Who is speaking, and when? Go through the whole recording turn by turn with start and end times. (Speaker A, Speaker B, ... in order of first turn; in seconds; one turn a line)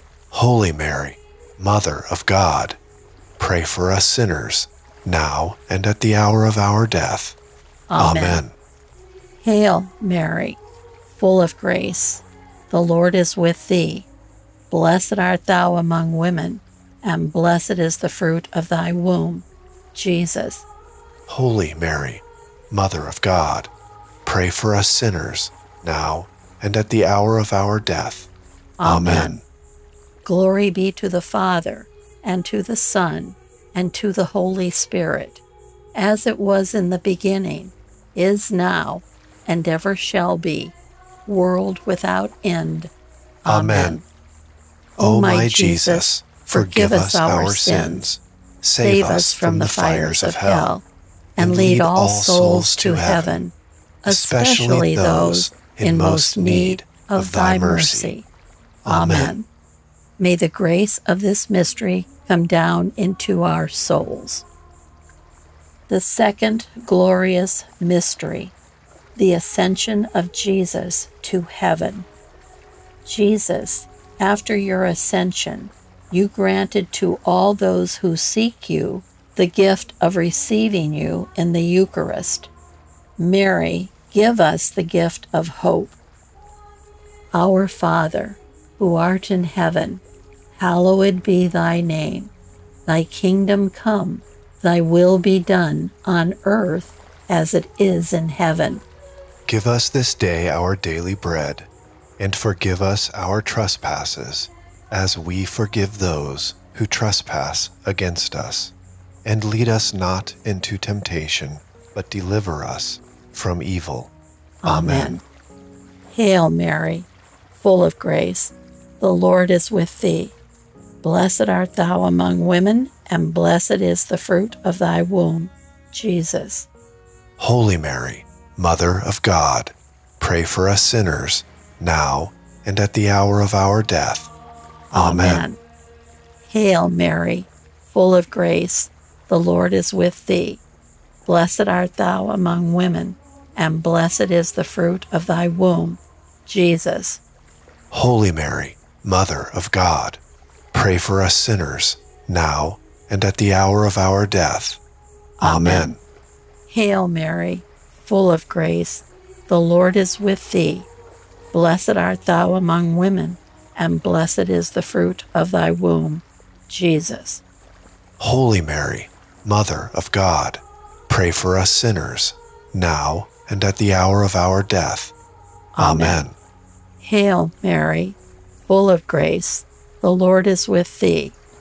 Speaker A: 0.3-2.8
Speaker A: 3.4-7.4
Speaker B: 7.9-8.4
Speaker A: 8.0-8.6
Speaker B: 9.4-10.6
Speaker B: 11.1-14.1
Speaker B: 14.7-20.7
Speaker A: 21.3-23.7
Speaker A: 24.2-28.3
Speaker B: 28.8-29.3
Speaker A: 28.8-29.4
Speaker B: 30.2-35.4
Speaker B: 36.0-40.8
Speaker B: 41.3-42.9
Speaker B: 43.4-44.0
Speaker A: 43.5-44.0
Speaker B: 45.0-48.1
Speaker A: 45.0-50.7
Speaker B: 48.8-50.8
Speaker B: 51.4-58.3
Speaker A: 51.4-53.4
Speaker A: 54.1-58.1
Speaker A: 58.8-59.4
Speaker B: 58.9-59.5
Speaker B: 60.2-64.5
Speaker B: 65.9-68.5
Speaker B: 69.2-72.1
Speaker B: 73.0-82.5
Speaker B: 83.2-86.0
Speaker B: 87.3-92.3
Speaker B: 92.9-98.8
Speaker A: 99.5-114.1
Speaker B: 114.6-115.2
Speaker A: 114.7-115.2
Speaker B: 116.1-120.4
Speaker B: 121.0-126.7
Speaker A: 127.4-134.3
Speaker A: 134.9-135.4
Speaker B: 134.9-135.6
Speaker B: 136.5-140.6
Speaker B: 141.3-147.2
Speaker A: 147.9-150.2
Speaker A: 150.7-154.8
Speaker A: 155.4-156.0
Speaker B: 155.4-155.9
Speaker B: 156.7-160.9
Speaker B: 161.5-167.4
Speaker A: 168.2-175.2
Speaker B: 175.8-176.2
Speaker A: 175.8-176.4
Speaker B: 177.0-181.4